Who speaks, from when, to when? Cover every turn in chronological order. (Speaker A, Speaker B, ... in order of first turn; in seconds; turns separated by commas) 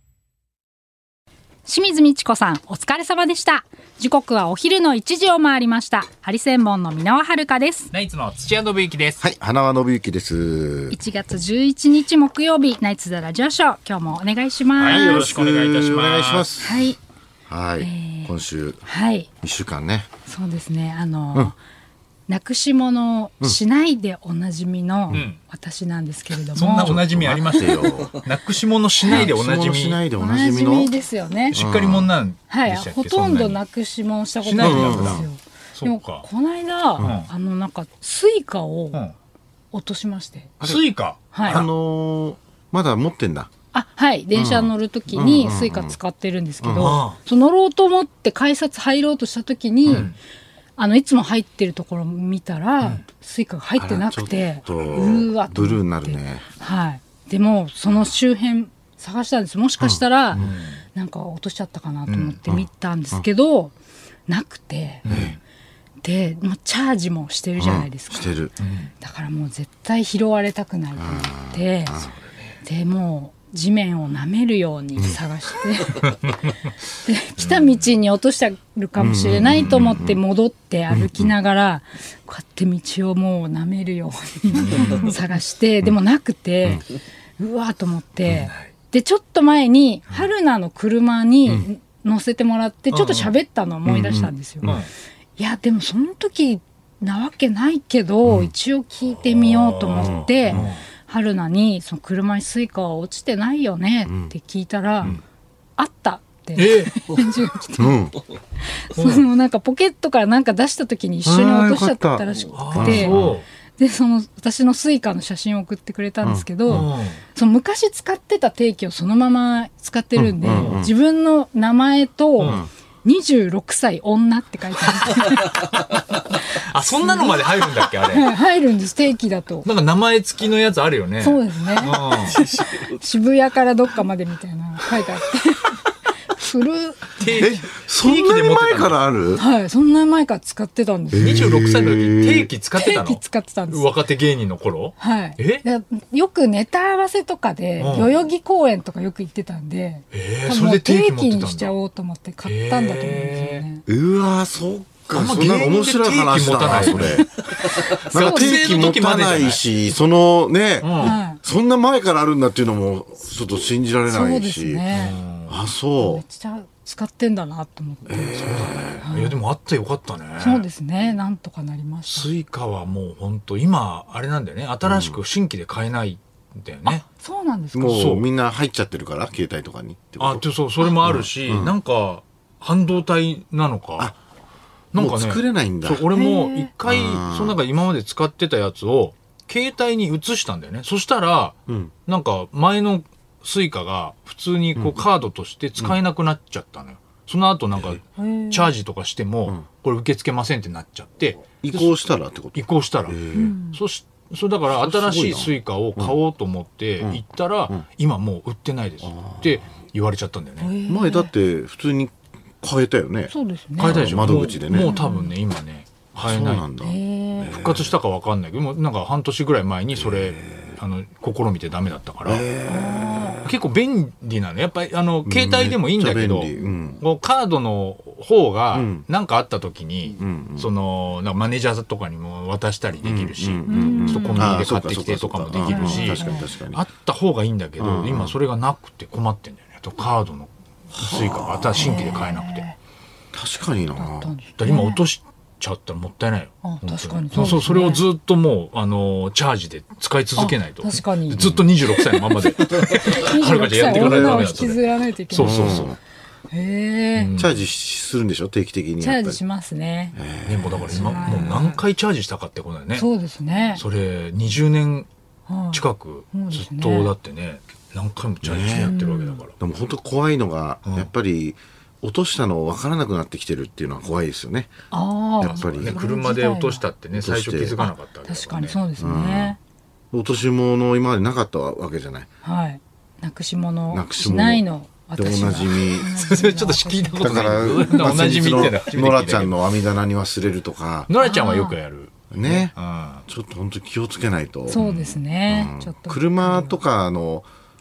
Speaker A: 1.6-7.9, Speaker B: 7.9-9.2, Speaker C: 9.2-11.0, Speaker A: 10.9-15.3, Speaker B: 14.8-16.5, Speaker C: 14.8-16.9, Speaker A: 16.6-17.0, Speaker C: 17.5-18.8, Speaker A: 17.8-19.3, Speaker C: 19.4-20.1, Speaker A: 20.3-21.6, Speaker A: 22.3-27.0, Speaker B: 25.1-25.4, Speaker B: 26.6-30.0, Speaker C: 26.8-28.1, Speaker C: 29.1-30.9, Speaker A: 30.2-31.6, Speaker B: 31.5-33.6, Speaker C: 31.5-32.1, Speaker A: 32.5-39.0, Speaker B: 34.4-36.2, Speaker C: 34.6-35.2, Speaker B: 37.0-37.3, Speaker A: 39.7-40.5, Speaker C: 40.6-40.9, Speaker B: 40.6-41.7, Speaker A: 41.3-41.6, Speaker C: 41.4-43.5, Speaker A: 43.7-50.1, Speaker C: 44.3-46.0, Speaker C: 46.6-47.0, Speaker B: 46.8-47.2, Speaker B: 49.9-50.1, Speaker A: 50.8-60.4, Speaker C: 53.8-56.4, Speaker B: 54.8-55.1, Speaker C: 59.8-60.6, Speaker B: 60.3-60.8, Speaker A: 60.9-63.7, Speaker B: 62.1-62.4, Speaker C: 62.5-63.2, Speaker A: 64.3-65.0, Speaker B: 65.0-65.4, Speaker C: 65.1-65.4, Speaker A: 66.0-68.4, Speaker C: 67.6-68.5, Speaker B: 68.6-68.9, Speaker A: 69.0-72.0, Speaker C: 71.0-72.1, Speaker B: 72.1-72.6, Speaker A: 72.6-76.3, Speaker A: 77.0-86.8, Speaker B: 77.4-77.7, Speaker C: 79.0-80.2, Speaker C: 80.9-81.3, Speaker B: 84.5-85.2, Speaker A: 87.4-94.7, Speaker B: 88.3-88.7, Speaker B: 92.9-93.3, Speaker C: 93.8-94.8, Speaker B: 94.6-94.9, Speaker A: 95.4-105.1, Speaker B: 99.2-100.8, Speaker C: 100.0-100.7, Speaker C: 104.1-104.3, Speaker A: 105.8-108.0, Speaker B: 106.6-107.2, Speaker C: 107.8-108.2, Speaker A: 108.6-113.2, Speaker B: 109.0-109.2, Speaker C: 111.2-113.4, Speaker B: 112.5-113.4, Speaker A: 113.8-129.7, Speaker C: 116.2-116.9, Speaker B: 116.7-117.2, Speaker C: 120.2-120.9, Speaker B: 120.5-120.8, Speaker C: 122.4-122.7, Speaker B: 126.3-128.3, Speaker B: 129.6-132.4, Speaker A: 131.2-135.8, Speaker A: 136.3-137.6, Speaker B: 137.2-139.0, Speaker C: 137.3-139.4, Speaker A: 139.3-141.5, Speaker C: 141.1-142.5, Speaker B: 141.2-145.6, Speaker A: 142.8-143.9, Speaker A: 145.0-153.8, Speaker B: 147.8-148.1, Speaker B: 150.1-151.8, Speaker B: 152.4-153.6, Speaker C: 153.9-157.3, Speaker B: 155.1-157.3, Speaker A: 157.8-158.7, Speaker B: 157.9-159.6, Speaker C: 158.0-164.9, Speaker B: 160.8-161.2, Speaker A: 161.0-161.4, Speaker A: 164.1-165.2, Speaker B: 164.9-165.6, Speaker C: 165.5-166.2, Speaker A: 166.0-168.4, Speaker C: 168.1-169.0, Speaker B: 168.2-170.6, Speaker A: 169.0-169.4, Speaker A: 170.4-172.3, Speaker B: 172.1-177.0, Speaker C: 174.8-175.2, Speaker A: 176.8-178.0, Speaker C: 177.7-180.4, Speaker B: 177.8-178.2, Speaker B: 180.2-184.1, Speaker C: 181.0-181.8, Speaker B: 184.9-202.0, Speaker C: 184.9-186.1, Speaker A: 186.1-186.7, Speaker C: 186.8-187.6, Speaker A: 198.2-198.7, Speaker C: 201.6-203.5, Speaker B: 202.5-210.7, Speaker A: 203.3-203.8, Speaker C: 204.7-206.1, Speaker C: 207.0-207.8, Speaker C: 209.0-209.6, Speaker A: 210.6-211.3, Speaker C: 210.9-214.9, Speaker A: 213.3-214.1, Speaker B: 213.8-216.7, Speaker A: 214.7-215.3, Speaker C: 216.1-217.9, Speaker A: 216.8-217.6, Speaker B: 217.4-222.4, Speaker C: 220.0-220.7, Speaker C: 222.2-223.5, Speaker A: 222.7-223.4, Speaker B: 223.4-242.6, Speaker C: 225.2-227.0, Speaker C: 228.7-229.0, Speaker C: 230.2-230.7, Speaker C: 233.0-236.8, Speaker A: 233.7-234.6, Speaker A: 235.6-236.5, Speaker C: 237.8-238.3, Speaker C: 240.9-242.2, Speaker A: 241.7-242.8, Speaker C: 243.3-244.3, Speaker A: 243.9-245.0, Speaker B: 244.6-255.9, Speaker A: 246.6-248.0, Speaker A: 250.3-251.4, Speaker C: 251.3-251.7, Speaker A: 252.8-255.8, Speaker C: 253.9-254.6, Speaker C: 255.4-256.0, Speaker A: 256.5-257.3, Speaker B: 257.1-257.6, Speaker C: 257.4-259.4, Speaker A: 259.0-260.2, Speaker C: 260.1-261.6, Speaker B: 260.5-263.1, Speaker A: 260.9-261.8, Speaker A: 262.9-263.8, Speaker B: 263.8-265.1, Speaker A: 265.5-267.1, Speaker B: 265.7-269.5, Speaker C: 268.4-269.0, Speaker A: 268.8-269.4, Speaker C: 269.6-274.7, Speaker B: 270.8-271.1, Speaker A: 274.9-276.8, Speaker C: 275.4-276.0, Speaker B: 275.5-278.8, Speaker C: 277.1-277.8, Speaker A: 277.8-279.6, Speaker C: 279.0-279.6, Speaker C: 280.1-282.3, Speaker A: 282.4-288.0, Speaker C: 283.9-284.6, Speaker C: 285.1-286.1, Speaker B: 286.0-289.6, Speaker C: 287.2-291.1, Speaker B: 291.1-293.2, Speaker A: 291.2-291.7, Speaker C: 292.3-292.7, Speaker C: 293.3-294.8, Speaker A: 294.7-296.8, Speaker B: 294.7-295.2, Speaker C: 295.5-297.4